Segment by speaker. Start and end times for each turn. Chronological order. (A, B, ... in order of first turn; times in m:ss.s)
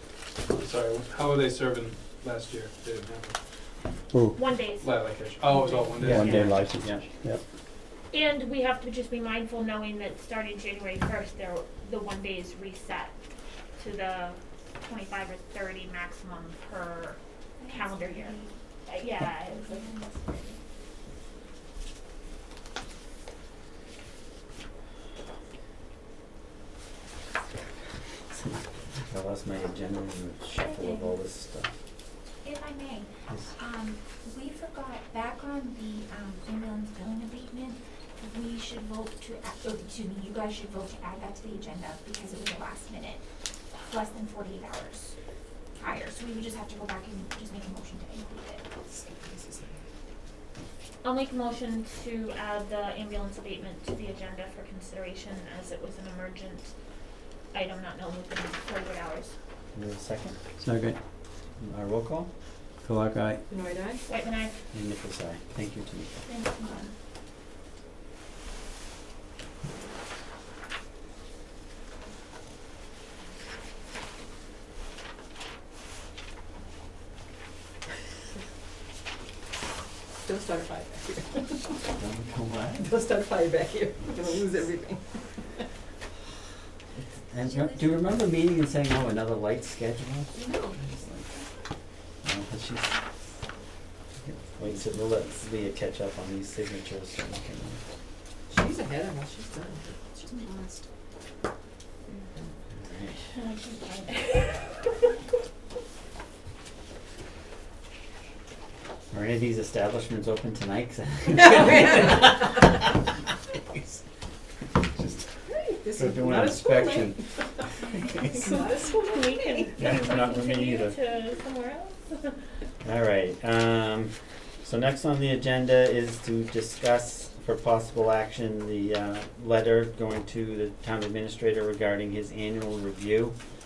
0:00.4-0:03.4 A
0:04.4-0:06.5 B
0:04.8-0:06.5 A
0:06.0-0:07.0 C
0:06.0-0:07.4 D
0:08.1-0:13.1 B
0:13.8-0:19.9 B
0:17.6-0:18.6 E
0:19.5-0:20.6 E
0:28.3-0:31.7 C
0:30.6-0:31.1 E
0:32.4-0:43.2 E
0:33.3-0:33.5 C
0:43.8-0:45.2 E
0:45.8-0:48.7 E
0:48.9-0:49.8 F
0:51.0-0:56.7 B
0:57.5-0:59.4 B
0:59.7-1:00.4 C
1:00.6-1:01.0 D
1:01.6-1:02.3 C
1:02.8-1:03.4 D
1:03.5-1:04.0 F
1:04.1-1:04.6 B
1:04.7-1:06.2 C
1:06.3-1:06.9 E
1:06.4-1:06.8 B
1:20.2-1:21.7 F
1:21.9-1:23.0 C
1:22.8-1:25.0 F
1:27.0-1:31.3 C
1:30.5-1:30.7 F
1:32.2-1:33.0 C
1:34.2-1:37.8 C
1:38.5-1:40.8 F
1:42.7-1:43.3 C
1:43.3-1:45.0 B
1:49.1-1:52.8 C
1:55.0-1:55.2 C
1:55.4-1:57.2 F
1:55.9-1:57.2 C
1:58.1-1:59.7 F
1:58.2-1:58.5 C
1:58.5-2:02.4 B
1:59.8-2:01.0 C
2:02.8-2:13.4 C